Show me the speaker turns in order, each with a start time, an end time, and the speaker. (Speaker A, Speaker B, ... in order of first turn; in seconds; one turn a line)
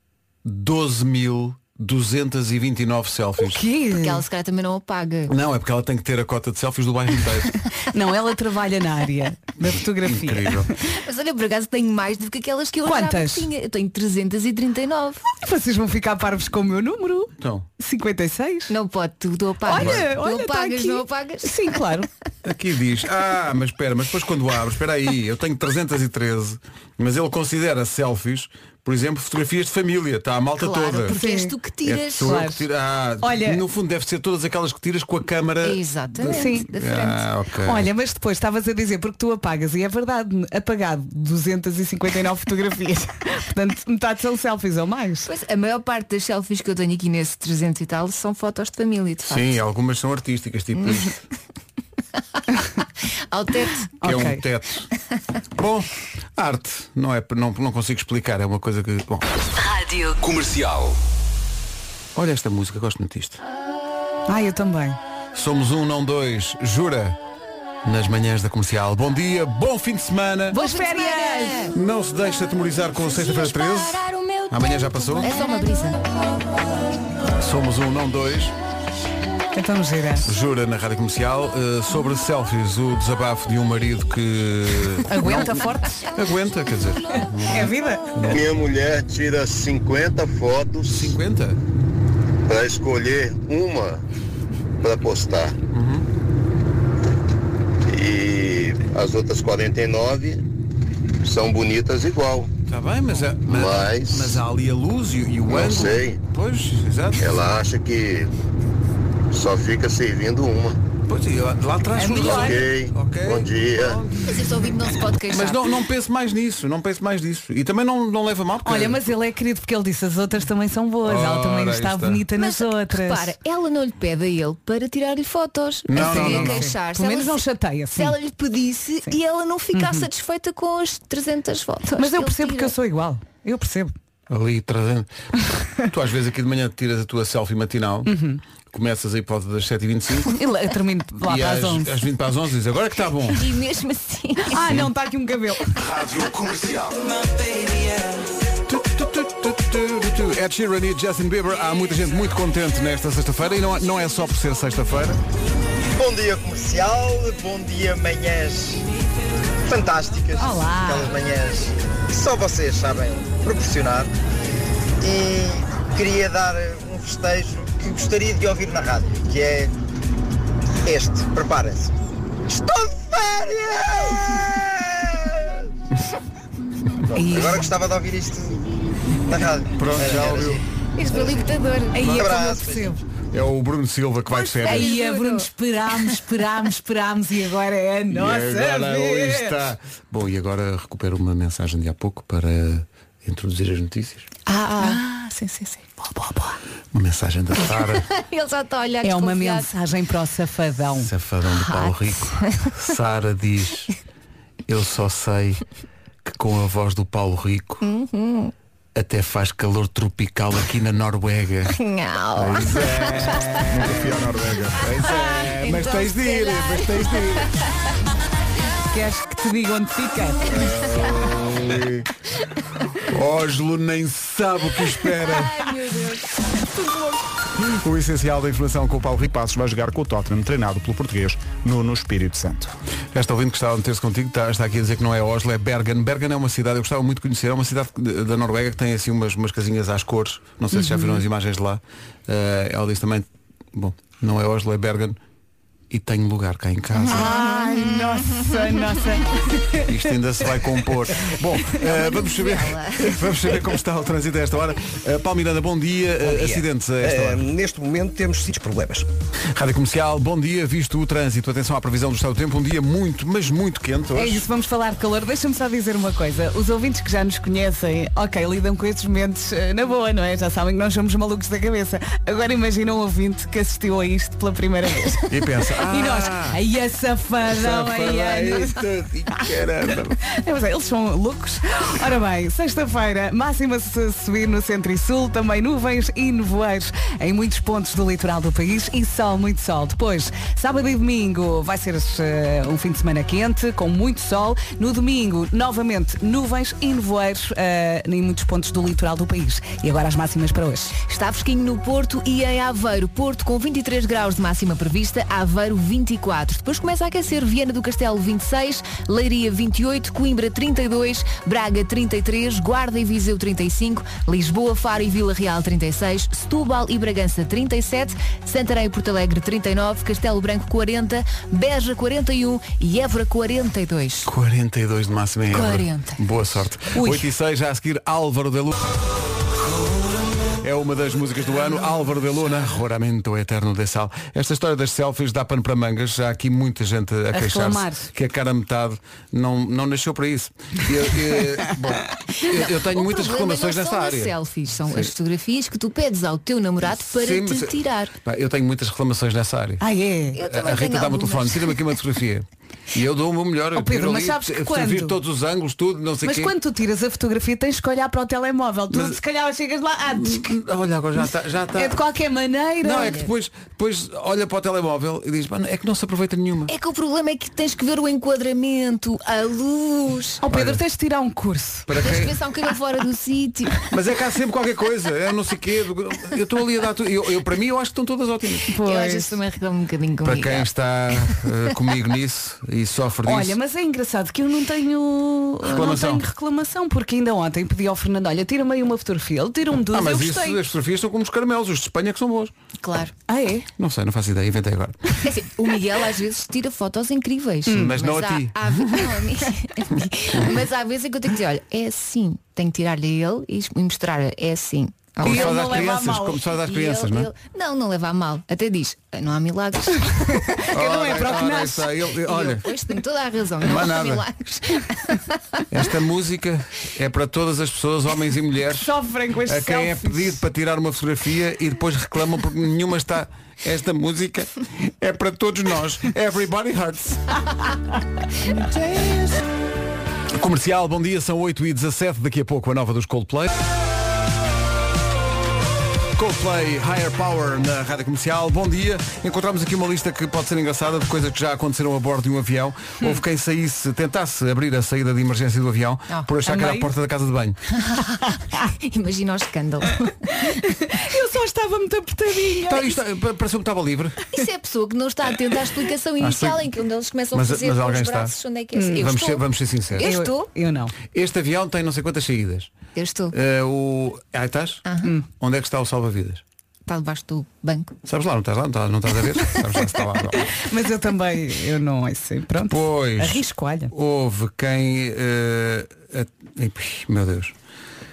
Speaker A: 0.4-3.6
Speaker B: 3.4-4.2
Speaker C: 3.9-5.3
Speaker A: 5.3-7.6
Speaker B: 7.9-10.7
Speaker A: 9.6-10.7
Speaker C: 10.9-15.2
Speaker B: 12.8-13.5
Speaker B: 15.4-18.7
Speaker A: 17.4-17.7
Speaker C: 18.7-21.6
Speaker B: 19.6-22.1
Speaker A: 19.8-20.1
Speaker A: 22.4-31.2
Speaker C: 30.6-32.4
Speaker B: 31.1-31.5
Speaker A: 31.8-37.9
Speaker B: 32.2-32.6
Speaker B: 33.2-33.6
Speaker C: 35.6-37.2
Speaker B: 36.2-36.7
Speaker B: 37.6-45.3
Speaker C: 45.2-49.5
Speaker A: 49.3-51.2
Speaker C: 53.3-53.9
Speaker A: 54.0-54.9
Speaker B: 54.0-54.4
Speaker A: 55.5-59.3
Speaker D: 59.6-61.0
Speaker A: 62.1-63.4
Speaker B: 64.3-65.0
Speaker A: 65.3-67.2
Speaker A: 67.8-70.6
Speaker B: 70.5-71.7
Speaker C: 70.5-71.7
Speaker A: 71.7-75.4
Speaker C: 74.0-74.4
Speaker C: 75.1-76.0
Speaker A: 77.4-78.5
Speaker B: 79.5-80.3
Speaker A: 80.2-88.5
Speaker B: 85.1-86.0
Speaker B: 87.4-88.1
Speaker E: 88.8-90.5
Speaker A: 90.9-91.6
Speaker E: 93.1-93.8
Speaker A: 95.7-96.1
Speaker E: 98.8-99.5
Speaker A: 102.7-107.3
Speaker E: 107.5-108.0
Speaker E: 109.7-110.2
Speaker A: 111.1-114.4
Speaker B: 111.9-112.7
Speaker C: 114.2-115.7
Speaker A: 115.3-119.1
Speaker B: 118.6-123.3
Speaker A: 121.0-122.2
Speaker C: 122.3-132.7
Speaker A: 125.9-126.7
Speaker B: 125.9-128.1
Speaker B: 129.7-130.1
Speaker B: 131.9-133.9
Speaker A: 134.3-135.1
Speaker A: 135.8-138.1
Speaker B: 138.1-138.4
Speaker A: 138.7-140.3
Speaker B: 140.3-142.0
Speaker A: 141.2-143.5
Speaker C: 143.3-144.8
Speaker B: 144.5-145.7
Speaker D: 146.1-146.8
Speaker A: 146.2-146.7
Speaker A: 148.7-155.2
Speaker F: 155.9-158.8
Speaker F: 159.7-164.1
Speaker B: 160.4-161.1
Speaker F: 165.0-169.7
Speaker F: 170.8-171.9
Speaker F: 172.5-175.4
Speaker B: 177.1-177.7
Speaker F: 177.2-178.7
Speaker F: 179.2-181.5
Speaker A: 179.8-180.6
Speaker C: 180.9-182.2
Speaker B: 181.9-183.0
Speaker F: 182.0-182.9
Speaker A: 183.3-185.0
Speaker C: 184.3-186.2
Speaker B: 184.6-189.6
Speaker A: 188.1-194.3
Speaker C: 194.5-195.0
Speaker B: 194.8-196.5
Speaker A: 196.9-198.1
Speaker C: 197.7-199.7
Speaker B: 199.0-201.1
Speaker A: 200.9-203.9
Speaker C: 201.5-202.7
Speaker A: 204.7-205.6
Speaker A: 206.2-207.8
Speaker C: 207.8-208.5
Speaker A: 208.9-211.8
Speaker C: 211.7-213.7
Speaker A: 212.3-217.6
Speaker G: 213.7-214.8
Speaker C: 215.0-217.5
Speaker B: 218.9-220.6
Speaker A: 220.5-222.1
Speaker C: 220.8-221.1
Speaker A: 223.0-225.6
Speaker C: 225.3-227.1
Speaker A: 227.5-229.3
Speaker G: 229.3-232.7
Speaker A: 233.1-245.2
Speaker B: 240.7-241.2
Speaker A: 245.9-247.5
Speaker B: 247.1-249.9
Speaker C: 247.1-248.5
Speaker A: 249.8-257.5
Speaker C: 251.8-253.3
Speaker H: 256.2-259.1
Speaker A: 259.5-264.4
Speaker B: 264.1-278.8
Speaker A: 275.3-276.6
Speaker A: 277.5-280.2
Speaker B: 280.2-301.0
Speaker C: 301.0-324.3
Speaker A: 324.2-328.8
Speaker C: 325.5-326.2
Speaker B: 326.9-327.3
Speaker A: 330.6-344.4
Speaker B: 337.3-338.1
Speaker C: 342.4-348.1
Speaker A: 346.8-349.8
Speaker B: 349.8-350.4
Speaker C: 350.3-351.8
Speaker A: 350.4-356.5
Speaker B: 353.8-355.2
Speaker B: 356.2-360.5
Speaker A: 358.9-359.2
Speaker A: 360.1-362.0
Speaker B: 361.8-363.1
Speaker A: 362.8-366.7
Speaker C: 362.9-363.3
Speaker C: 366.7-370.4
Speaker B: 370.4-371.9
Speaker A: 370.5-370.8
Speaker A: 371.9-372.4
Speaker C: 372.0-373.9
Speaker A: 373.9-378.7
Speaker B: 378.7-379.4
Speaker C: 378.8-380.7
Speaker A: 380.2-383.6
Speaker B: 383.2-390.6
Speaker A: 385.6-386.2
Speaker A: 389.9-392.5
Speaker C: 392.8-393.1
Speaker B: 393.3-393.7
Speaker A: 393.8-395.2
Speaker C: 395.2-405.9
Speaker A: 397.7-399.2
Speaker B: 405.2-406.4
Speaker A: 405.2-407.3
Speaker C: 406.6-410.6
Speaker B: 410.6-412.0
Speaker A: 410.7-412.7
Speaker C: 412.2-415.6
Speaker A: 413.6-414.2
Speaker A: 415.7-418.9
Speaker B: 418.7-420.4
Speaker A: 419.4-427.4
Speaker B: 428.5-429.4
Speaker A: 430.3-433.6
Speaker A: 436.1-447.6
Speaker B: 446.4-446.9
Speaker C: 447.8-450.5
Speaker B: 450.3-452.9
Speaker A: 452.6-454.3
Speaker C: 454.3-460.5
Speaker A: 456.2-456.7
Speaker A: 457.3-458.3
Speaker B: 458.7-459.1
Speaker A: 458.9-460.1
Speaker B: 460.0-460.9
Speaker A: 461.1-462.7
Speaker C: 462.9-463.3
Speaker A: 463.3-466.4
Speaker C: 466.9-467.9
Speaker A: 468.0-470.5
Speaker B: 470.5-473.9
Speaker A: 472.7-477.5